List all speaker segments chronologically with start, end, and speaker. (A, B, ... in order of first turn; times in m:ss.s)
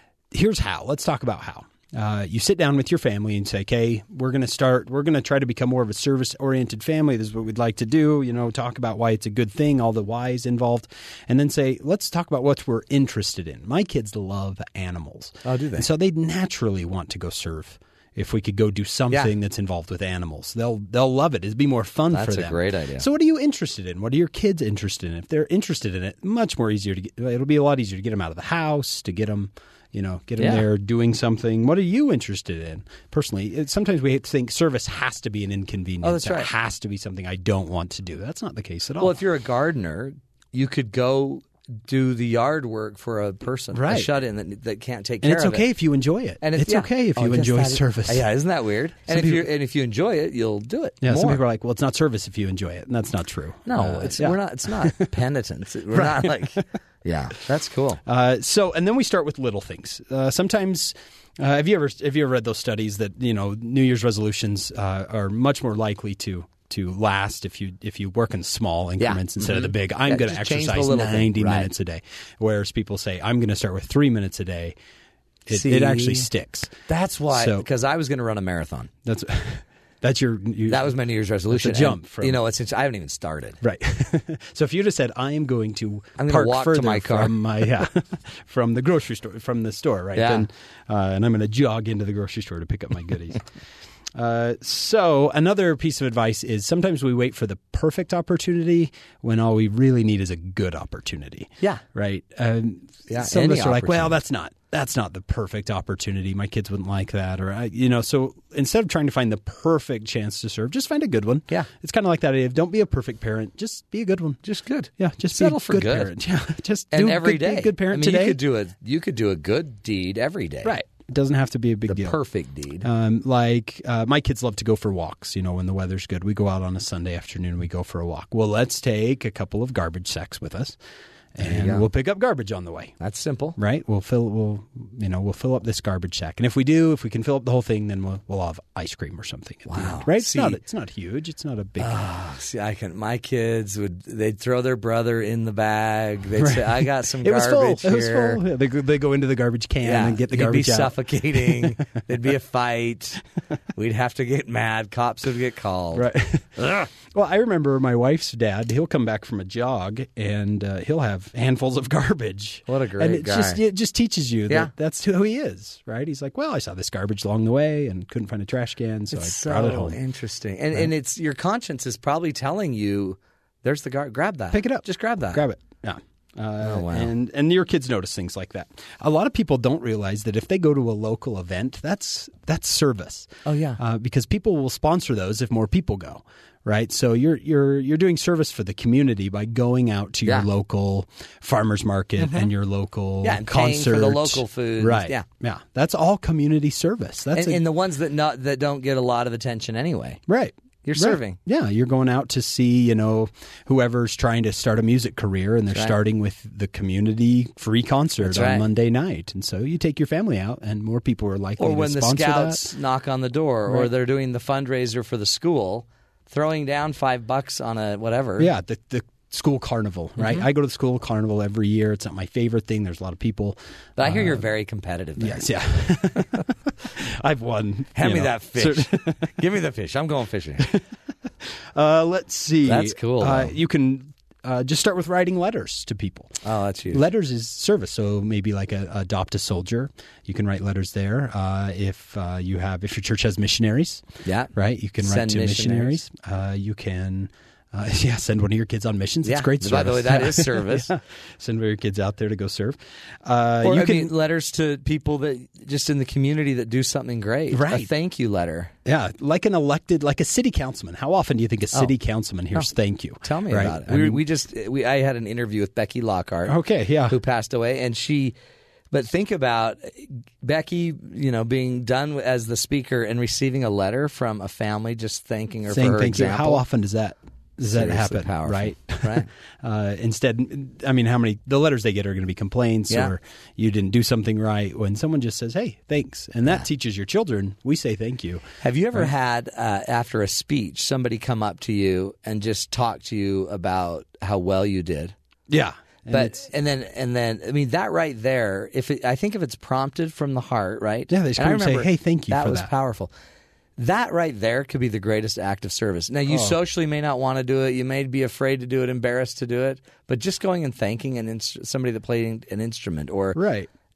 0:00.3-0:39.2 A
0:15.4-0:15.9 B
0:22.1-0:23.0 B
0:30.4-0:30.6 B
0:36.0-0:36.5 B
0:39.0-0:45.7 B
0:43.7-0:44.1 A
0:45.2-0:48.2 A
0:46.4-0:51.4 B
0:49.1-0:49.5 A
0:51.0-0:55.1 A
0:53.6-0:58.0 B
0:55.9-0:56.6 A
0:58.0-1:14.8 A
1:09.0-1:11.7 B
1:15.5-1:16.7 A
1:15.5-1:16.3 B
1:16.9-1:18.9 B
1:17.3-1:17.7 A
1:19.0-1:20.9 A
1:20.7-1:23.6 B
1:21.5-1:22.4 A
1:23.6-1:33.4 A
1:26.2-1:27.4 B
1:30.1-1:30.5 B
1:34.1-1:54.4 A
1:43.1-1:44.2 B
1:54.4-1:56.1 B
1:55.0-1:58.4 A
1:56.9-2:00.7 B
2:00.6-2:02.2 A
2:01.9-2:02.9 B
2:02.8-2:10.8 A
2:11.4-2:12.9 A
2:11.4-2:11.8 B
2:13.0-2:13.6 B
2:13.6-2:22.0 A
2:19.7-2:20.6 B
2:21.8-2:28.4 B
2:26.4-2:32.0 A
2:29.8-2:33.2 B
2:33.8-2:36.0 B
2:35.9-2:50.0 A
2:42.7-2:43.6 B
2:49.1-2:55.4 B
2:54.5-3:17.6 A
2:56.6-2:57.1 B
3:03.4-3:03.8 B
3:12.2-3:12.5 B
3:13.2-3:15.2 B
3:17.3-3:20.2 B
3:20.3-3:32.6 A
3:20.8-3:21.4 B
3:28.2-3:28.6 B
3:31.6-3:38.5 B
3:38.4-3:44.5 A
3:44.0-3:45.4 B
3:45.2-3:49.4 A
3:47.9-3:50.7 B
3:51.4-3:56.4 A
3:52.6-3:53.5 B
3:56.4-3:57.0 B
3:56.9-4:14.1 A
4:04.2-4:06.0 B
4:09.2-4:10.9 B
4:13.6-4:18.7 B
4:17.5-4:17.9 A
4:18.8-4:24.2 A
4:23.2-4:26.6 B
4:26.4-4:27.2 A
4:27.1-4:28.3 B
4:28.9-4:36.6 B
4:35.7-4:49.1 A
4:37.6-4:39.3 B
4:42.9-4:43.1 B
4:48.6-4:55.1 B
4:55.5-4:56.5 A
4:56.1-5:03.1 B
5:01.1-5:02.7 A
5:03.8-5:13.4 B
5:06.3-5:06.6 A
5:13.3-5:13.7 A